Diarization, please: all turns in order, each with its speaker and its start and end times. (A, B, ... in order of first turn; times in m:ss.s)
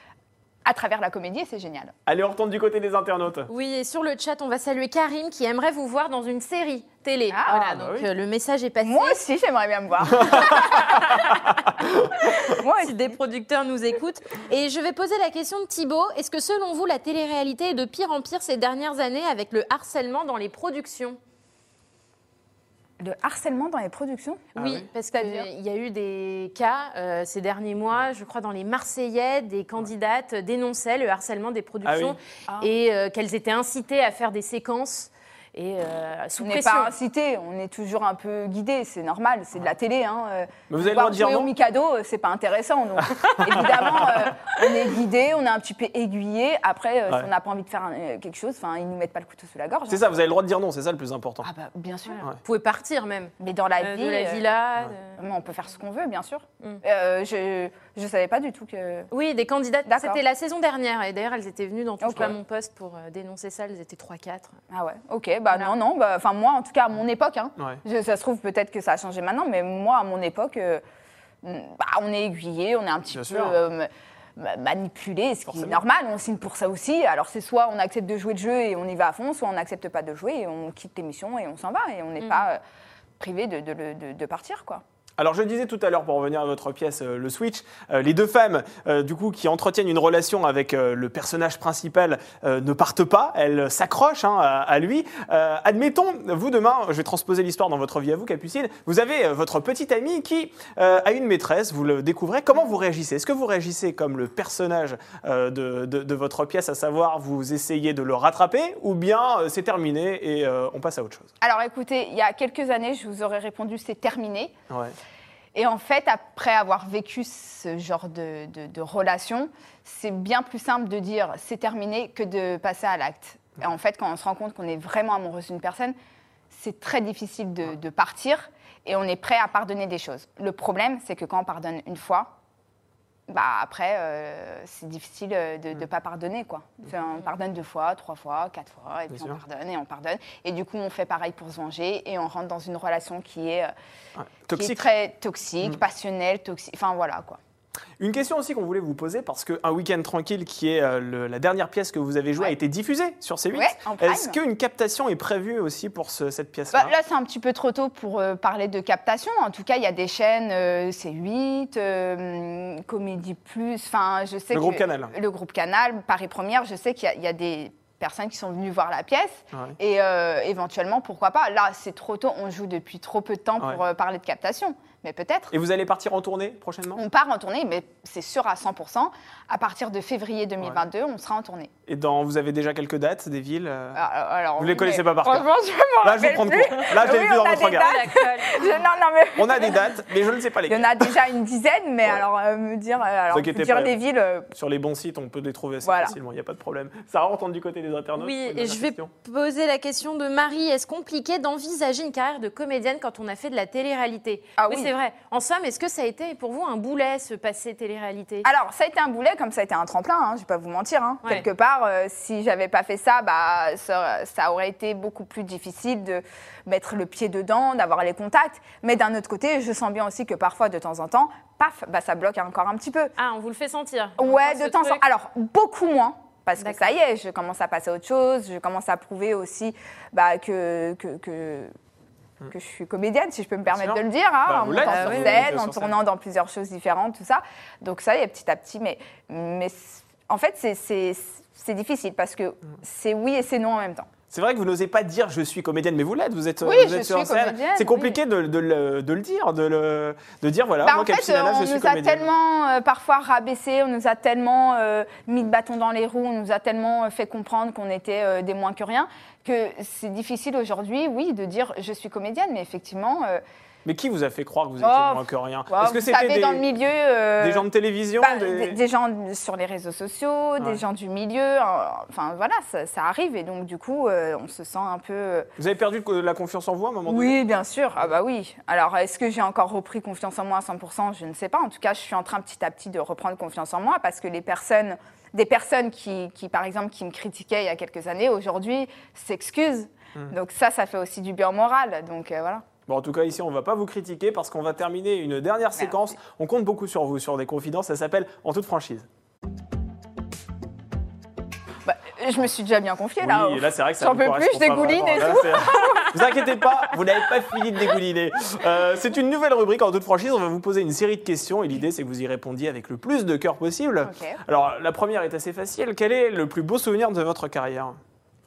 0:00.6-0:01.9 A
0:02.1-0:03.5 B
0:03.5-0:09.2 C
0:07.3-0:07.8 A
0:07.6-0:08.1 B
0:08.8-0:11.3 A
0:10.1-0:12.1 B
0:10.6-0:11.4 C
0:12.2-0:13.2 A
0:12.3-0:21.2 C
0:23.0-0:24.5 A
0:24.6-0:24.9 B
0:24.6-0:36.9 C
0:25.1-0:25.5 A
0:31.8-0:32.2 B
0:36.4-0:50.1 A
0:40.7-0:41.5 B
0:43.0-0:44.3 B
0:49.9-0:51.5 B
0:51.4-0:52.2 A
0:52.2-0:55.2 C
0:53.4-0:54.4 A
0:55.2-0:59.1 A
0:59.1-1:04.5 C
0:59.9-1:00.2 A
1:02.0-1:02.4 A
1:04.7-1:10.8 A
1:11.4-1:22.6 A
1:13.1-1:13.6 B
1:15.5-1:15.8 B
1:23.2-1:24.8 A
1:25.2-1:51.3 B
1:51.4-1:54.6 A
1:54.7-1:55.0 B
1:55.5-2:06.0 A
2:06.5-2:12.3 A
2:13.3-2:23.7 A
2:19.1-2:19.4 B
2:24.2-2:24.8 B
2:24.5-2:27.4 A
2:28.0-2:36.9 B
2:33.5-2:34.4 A
2:36.7-2:55.5 A
2:44.5-2:45.1 B
2:55.5-2:57.0 B
2:57.0-3:01.7 A
3:01.9-3:04.0 B
3:03.9-3:09.9 A
3:04.6-3:05.5 B
3:06.0-3:08.0 B
3:07.4-3:08.8 C
3:09.4-3:11.2 B
3:10.7-3:14.5 A
3:13.3-3:14.0 B
3:14.5-3:19.1 B
3:15.8-3:16.1 A
3:18.2-3:28.5 C
3:24.6-3:24.9 A
3:28.4-3:43.1 A
3:43.2-3:45.0 C
3:44.2-3:51.7 A
3:46.6-3:46.9 C
3:52.5-4:04.1 A
3:53.7-3:56.0 B
3:54.9-3:55.2 C
4:04.3-4:12.3 B
4:06.6-4:08.2 A
4:10.8-4:23.4 A
4:23.8-4:26.6 B
4:24.8-4:27.7 A
4:27.4-4:28.8 B
4:28.2-4:35.5 A
4:35.6-4:37.4 B
4:37.1-4:52.6 A
4:52.9-4:59.1 B
5:01.8-5:06.1 A
5:03.2-5:18.0 B
5:14.0-5:14.4 A